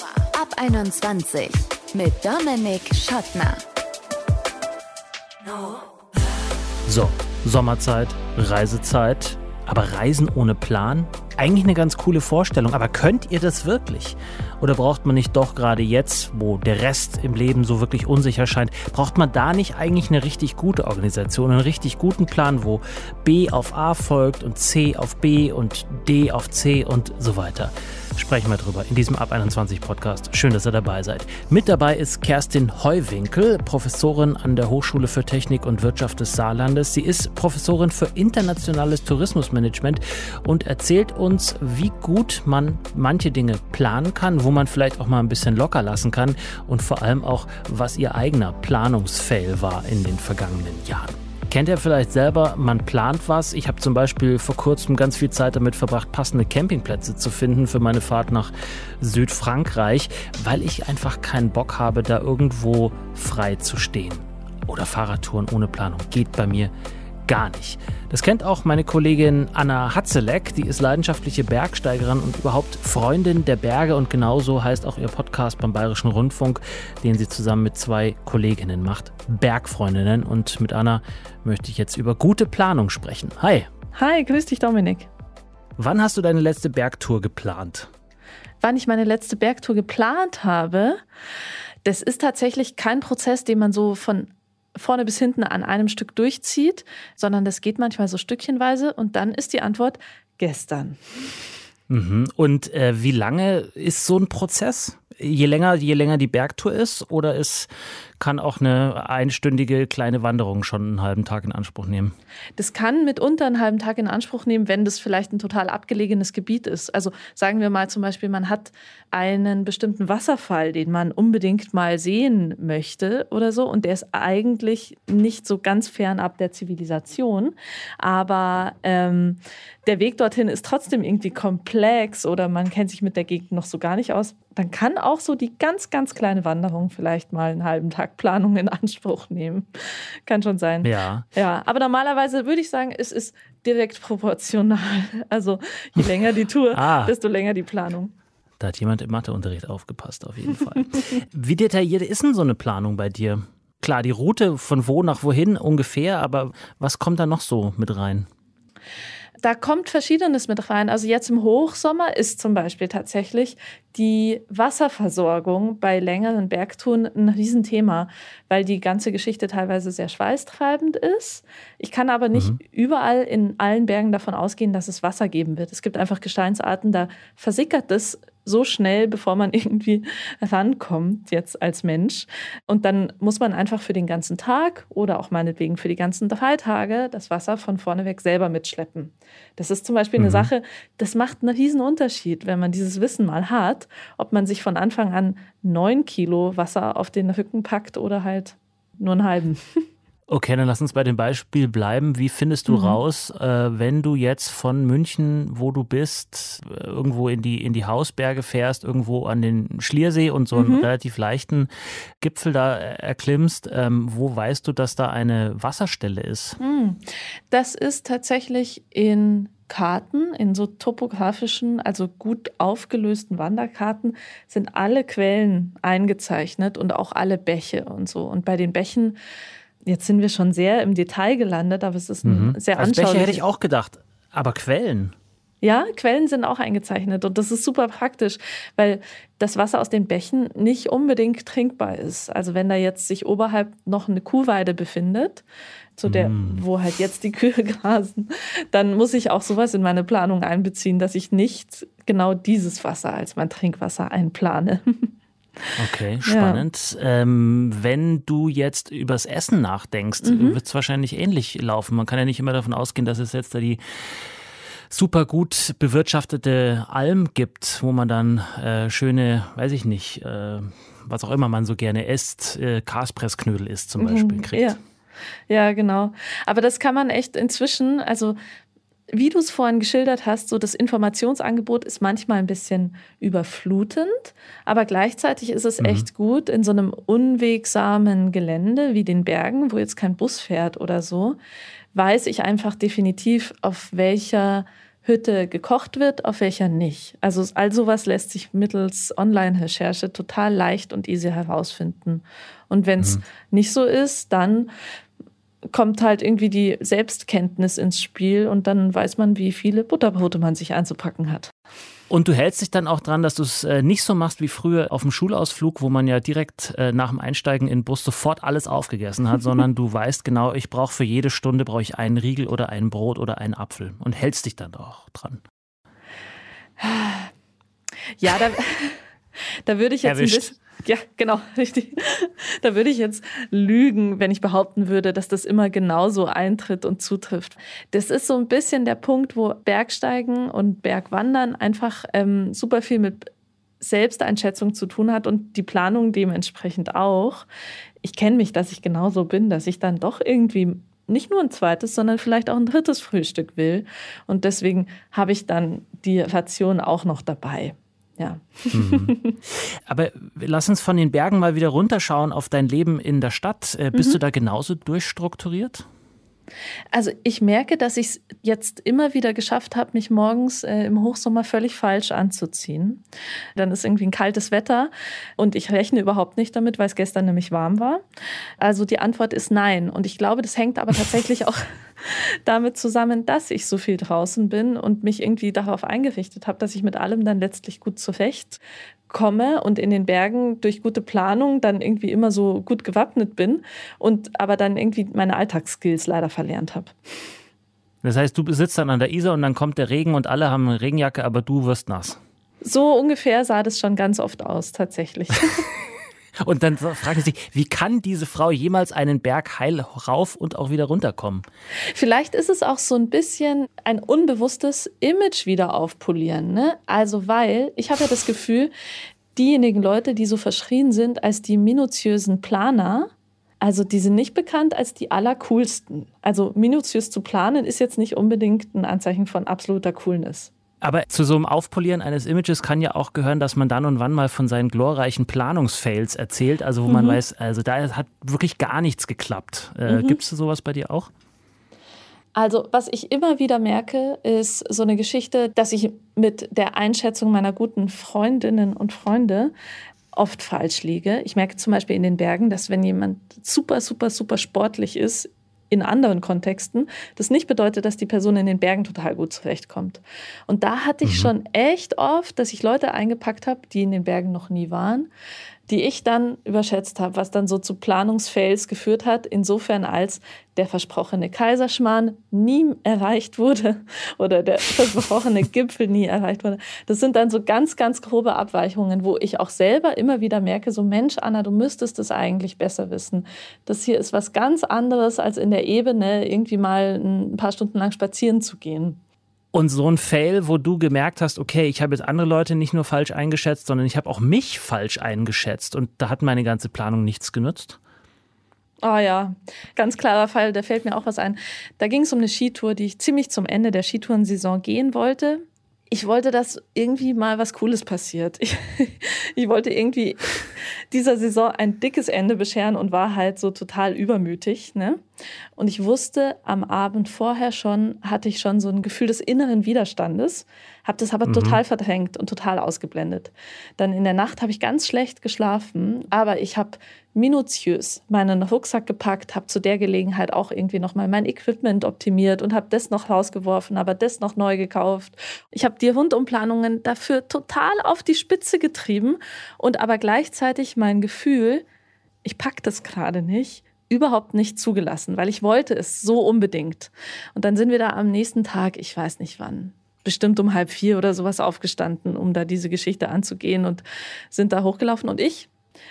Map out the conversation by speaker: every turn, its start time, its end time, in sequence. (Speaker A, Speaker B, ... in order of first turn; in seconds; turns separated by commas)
Speaker A: 0.2-3.6, Speaker B: 6.9-66.7, Speaker B: 67.3-83.7, Speaker C: 83.9-85.1, Speaker B: 85.8-87.9, Speaker C: 88.6-91.0, Speaker C: 91.8-101.0, Speaker B: 101.9-112.1, Speaker C: 112.6-139.7, Speaker C: 140.2-148.1, Speaker B: 140.8-141.2, Speaker B: 146.7-147.1, Speaker B: 148.6-158.3, Speaker C: 159.4-199.8, Speaker B: 190.2-190.5, Speaker B: 200.3-216.6, Speaker C: 202.7-203.0, Speaker C: 210.5-210.9, Speaker C: 216.6-229.2, Speaker C: 229.8-233.4, Speaker B: 232.2-235.1, Speaker C: 235.6-245.4, Speaker C: 245.9-255.1, Speaker B: 246.0-246.6, Speaker B: 255.8-263.8, Speaker C: 256.2-256.6, Speaker C: 260.2-260.6, Speaker B: 264.9-274.8, Speaker C: 274.0-274.8, Speaker C: 275.5-278.4, Speaker C: 279.1-291.4, Speaker B: 285.8-286.1, Speaker C: 291.9-304.7, Speaker C: 305.7-311.5, Speaker B: 312.1-325.4, Speaker C: 326.8-327.3, Speaker C: 328.2-329.0, Speaker C: 329.6-343.3, Speaker B: 330.0-330.5, Speaker C: 343.8-347.4, Speaker C: 348.0-359.3, Speaker B: 358.7-365.9, Speaker C: 363.9-364.2, Speaker C: 366.9-373.0, Speaker C: 373.6-378.0, Speaker C: 378.6-396.9, Speaker B: 398.0-402.2, Speaker C: 402.6-405.6, Speaker B: 406.4-411.4, Speaker C: 411.9-418.7, Speaker C: 419.3-430.5, Speaker B: 430.8-441.1, Speaker C: 436.9-437.2, Speaker C: 439.9-440.2, Speaker C: 442.3-449.5, Speaker C: 450.1-465.1, Speaker B: 461.0-461.3, Speaker C: 465.7-489.0, Speaker B: 489.5-497.8, Speaker C: 498.8-515.0, Speaker C: 515.5-541.6, Speaker B: 521.3-521.6, Speaker C: 542.2-555.5